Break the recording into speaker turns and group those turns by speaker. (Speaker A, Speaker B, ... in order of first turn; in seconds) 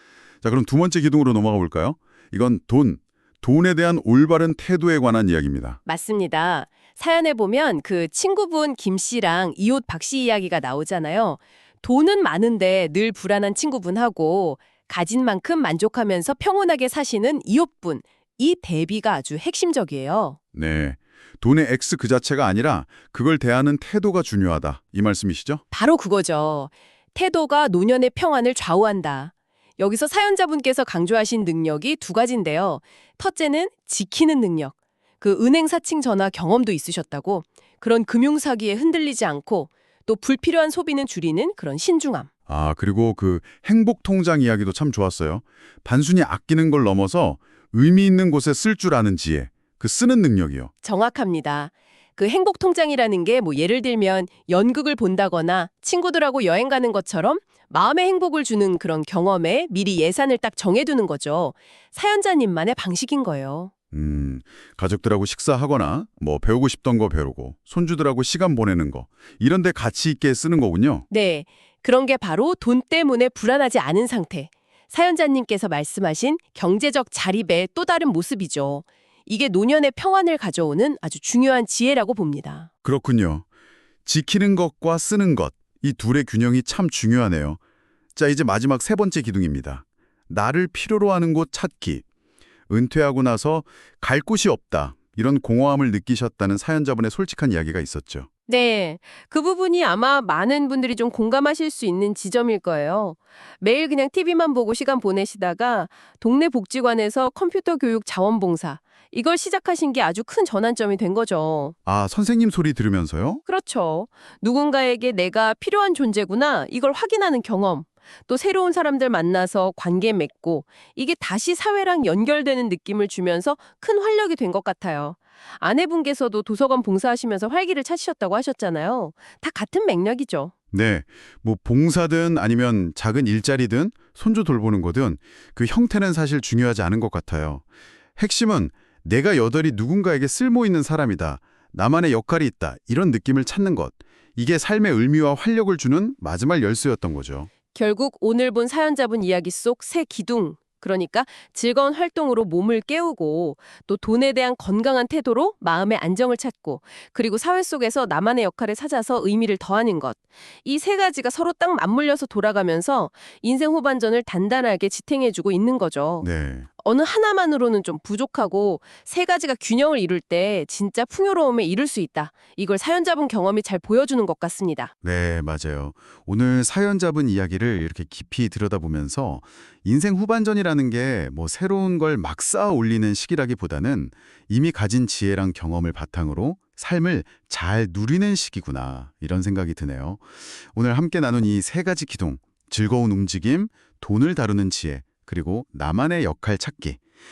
Speaker A: 0.4-5.8, 20.5-25.6, 42.5-50.7, 63.9-71.1, 82.8-83.5, 84.0-87.6, 88.2-92.0, 92.7-98.3, 111.9-113.4, 130.7-137.6, 138.2-147.5, 166.2-166.7, 175.0-197.0
Speaker B: 5.9-20.4, 25.7-42.3, 50.8-63.7, 71.1-82.7, 98.5-111.8, 113.5-130.5, 147.7-166.3, 166.8-174.9